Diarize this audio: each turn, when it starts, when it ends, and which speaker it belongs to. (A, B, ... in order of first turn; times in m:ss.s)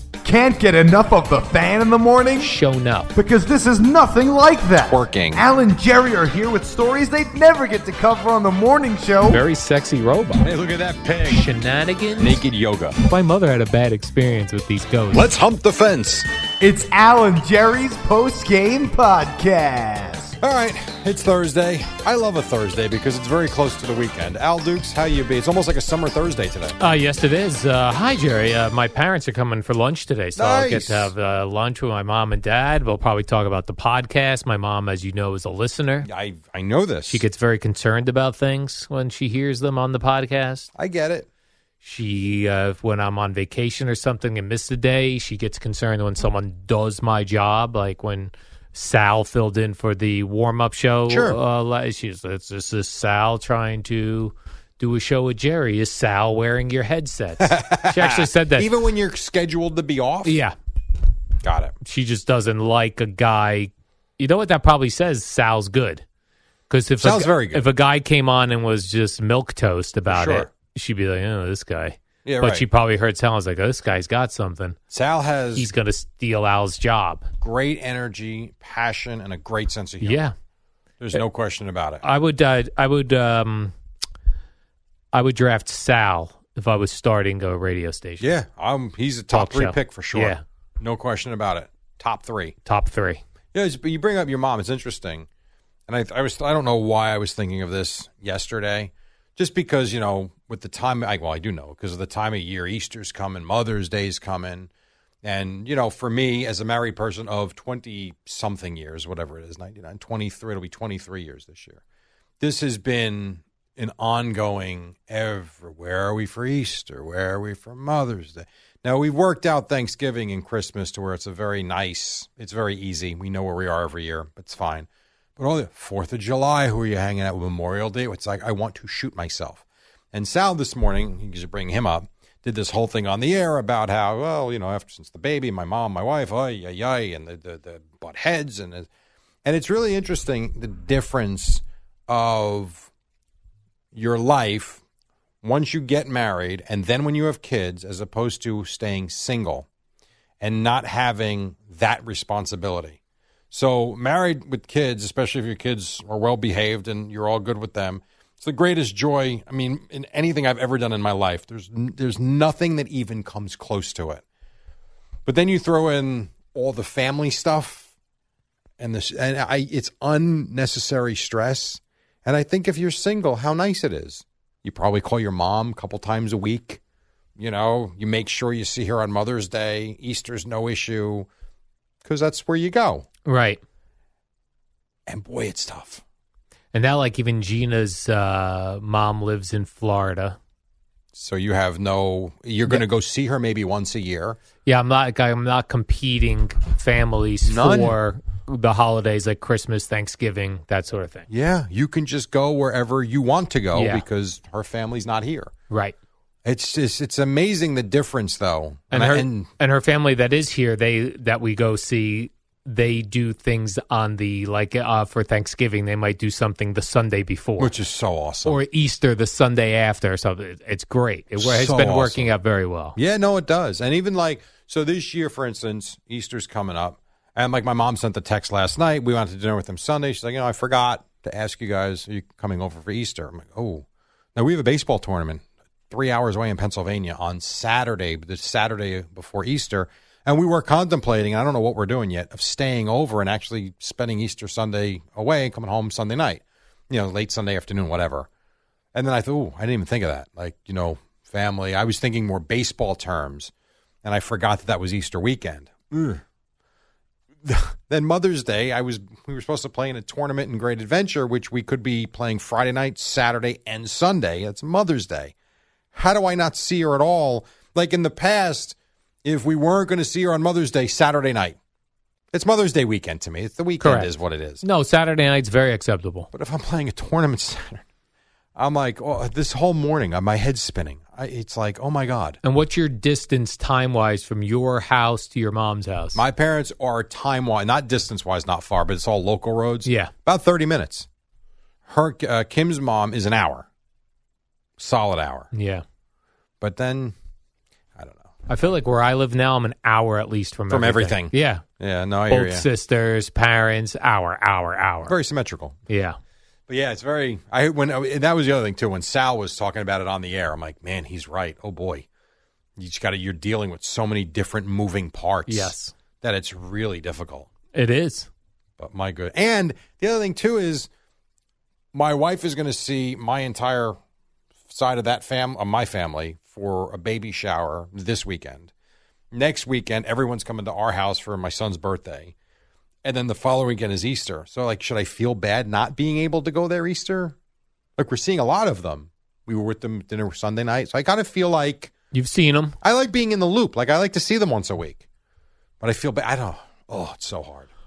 0:00.2-0:02.5 A
0:02.4-0:03.1 B
0:03.1-0:09.4 A
0:04.8-0:05.4 C
0:09.2-0:10.5 B
0:10.4-0:11.5 C
0:11.3-0:12.4 B
0:12.2-0:13.0 C
0:13.1-0:15.3 B
0:15.1-0:16.3 C
0:16.6-0:20.3 A
0:20.4-0:26.8 C
0:26.8-0:36.1 B
0:30.4-0:31.1 C
0:36.0-0:37.2 C
0:37.1-0:40.7 B
0:40.8-0:41.3 C
0:41.8-0:58.7 B
0:51.1-0:51.4 C
0:57.4-1:00.4 C
1:00.2-1:00.6 B
1:01.4-1:01.8 C
1:01.8-1:06.0 B
1:06.7-1:14.8 B
1:07.0-1:07.7 C
1:10.1-1:10.5 C
1:12.2-1:12.7 C
1:14.9-1:15.7 C
1:15.6-1:17.3 B
1:17.4-1:20.2 C
1:20.0-1:20.3 B
1:21.0-1:22.0 C
1:22.0-1:23.7 B
1:25.1-1:28.3 B
1:28.2-1:32.6 C
1:29.3-1:30.4 B
1:32.6-1:33.2 B
1:33.5-1:35.3 C
1:35.9-1:44.7 C
1:45.2-1:51.8 C
1:52.4-2:18.9 C
2:19.4-2:22.9 C
2:23.9-2:24.8 C
2:25.4-2:29.7 C
2:30.4-2:33.0 C
2:33.5-2:44.2 C
2:45.3-2:47.9 C
2:48.8-2:56.8 C
2:57.4-3:01.3 C
3:02.0-3:03.1 C
3:03.2-3:03.6 B
3:05.1-3:06.0 C
3:06.7-3:10.4 B
3:11.1-3:14.4 C
3:14.6-3:21.3 B
3:17.4-3:18.0 C
3:21.3-3:25.5 C
3:23.7-3:24.0 B
3:25.7-3:26.0 B
3:26.4-3:29.5 C
3:28.9-3:37.7 B
3:37.6-3:38.6 C
3:38.4-3:43.0 B
3:41.4-3:42.3 C
3:43.0-4:08.3 C
4:08.9-4:13.5 C
4:14.0-4:16.2 C
4:17.4-4:25.3 C
4:25.9-4:31.6 C
4:32.3-4:34.6 C
4:33.8-4:36.3 B
4:36.3-4:37.8 C
4:38.6-4:42.4 C
4:42.4-4:46.2 B
4:46.2-4:51.1 C
4:49.9-4:50.1 B
4:51.9-4:53.7 C
4:54.8-4:55.5 C
4:55.5-4:55.8 B
4:56.6-4:57.2 C
4:58.0-4:58.4 C
4:58.5-5:01.6 B
5:00.7-5:02.7 C
5:02.3-5:05.1 B
5:05.1-5:05.8 C
5:05.9-5:06.2 B
5:06.7-5:12.1 C
5:12.8-5:17.5 C
5:15.5-5:15.9 B
5:17.7-5:18.3 B
5:18.8-5:20.9 C
5:21.9-5:24.0 C
5:24.7-5:28.7 C
5:29.3-5:32.3 C
5:33.0-5:37.4 C
5:38.0-5:41.9 C
5:42.1-5:42.8 B
5:42.8-5:45.0 C
5:45.8-5:47.7 C